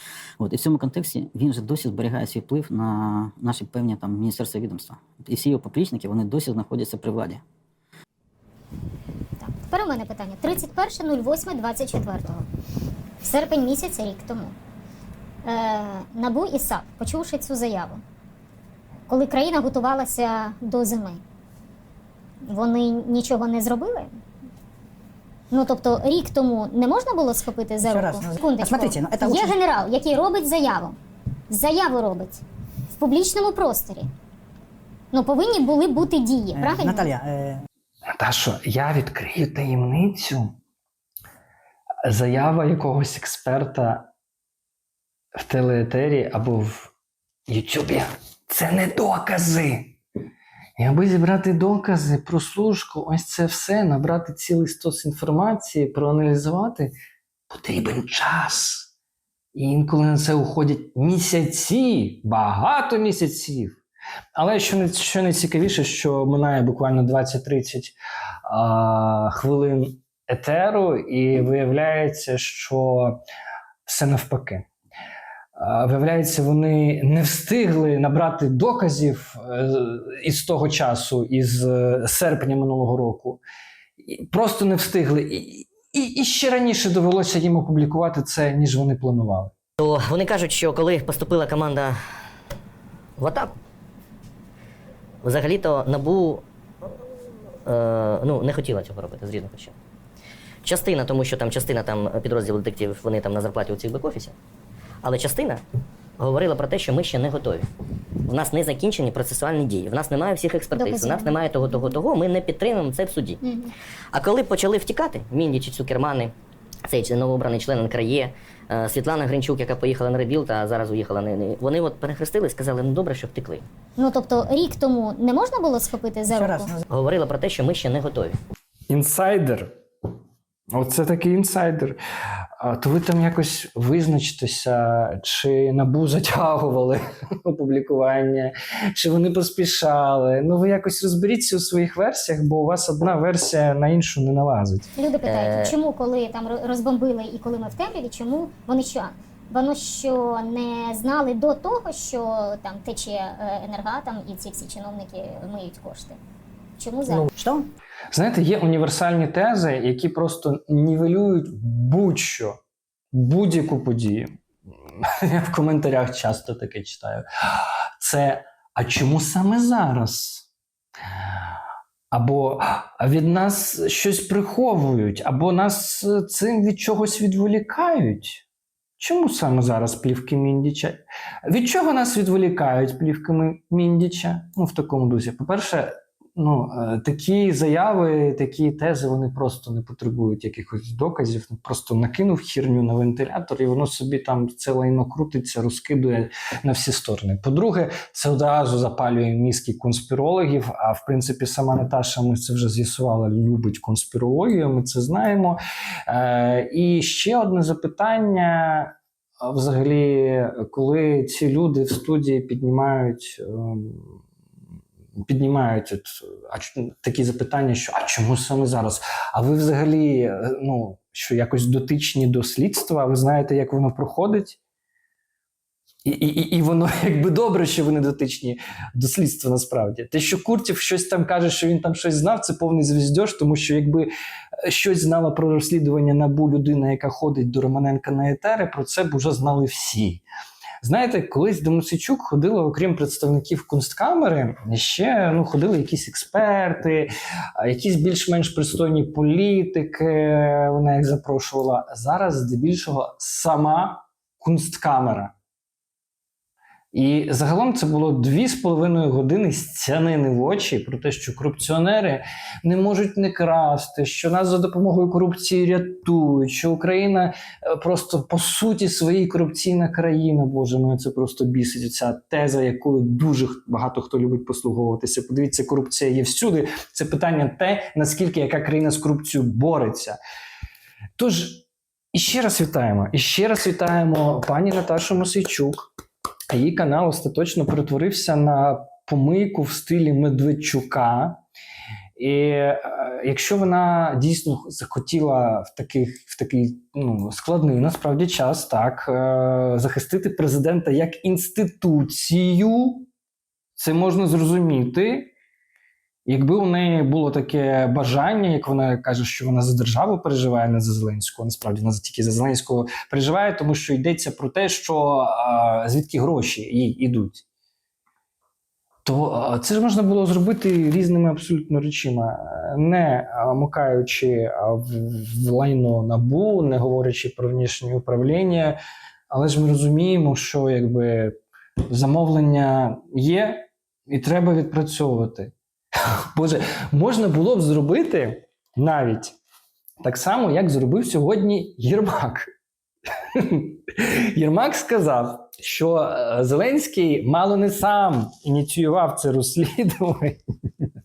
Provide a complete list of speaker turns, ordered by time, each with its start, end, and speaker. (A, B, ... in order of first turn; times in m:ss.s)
0:00.4-0:07.4 A
0:09.4-0:12.4 B
0:13.2-0:14.5 B
0:15.4-0:18.0 B
0:19.1-0:21.2 B
0:22.4-0:24.2 B
0:25.5-0:31.0 B
0:27.8-0:29.6 C
0:31.5-0:32.4 B
0:33.0-0:34.1 B
0:35.1-0:37.1 B
0:36.5-0:37.6 C
0:38.1-0:40.6 D
0:42.0-0:44.1 D
0:45.4-0:46.9 D
0:47.5-0:49.9 D
0:50.8-0:56.9 D
0:57.5-0:58.9 D
0:59.5-1:03.8 D
1:04.3-1:13.2 D
1:13.9-1:14.6 D
1:15.6-1:23.4 D
1:24.0-1:29.5 D
1:29.8-1:32.0 E
1:33.2-1:33.5 E
1:35.2-1:36.4 E
1:37.6-1:39.7 E
1:40.6-1:44.3 E
1:45.0-1:45.6 E
1:46.2-1:47.6 E
1:48.3-1:53.4 E
1:50.8-1:51.4 B
1:53.4-1:53.7 B
1:54.1-1:56.3 E
1:56.8-2:03.6 E
2:04.0-2:06.7 B
2:06.3-2:06.8 C
2:06.9-2:08.3 E
2:08.9-2:09.7 D
2:10.7-2:12.0 D
2:12.6-2:24.9 D
2:25.0-2:36.2 B
2:25.2-2:25.7 E
2:36.8-2:37.3 B
2:37.3-2:37.7 C
2:38.1-2:42.6 D
2:43.1-2:44.4 D
2:45.0-2:50.4 D
2:52.1-2:58.4 D
2:59.0-3:34.2 D
3:35.2-3:44.6 D
3:46.0-3:54.1 D
3:54.6-4:00.2 D
4:00.8-4:15.3 D
4:16.9-4:40.2 D
4:41.2-4:45.9 D
4:46.5-4:51.4 D
4:52.2-5:03.1 D
5:03.8-5:05.3 D
5:06.2-5:17.4 D
5:19.0-5:28.8 D
5:29.3-5:31.4 D
5:31.9-5:39.3 D
5:40.0-5:42.5 D
5:43.3-5:50.9 D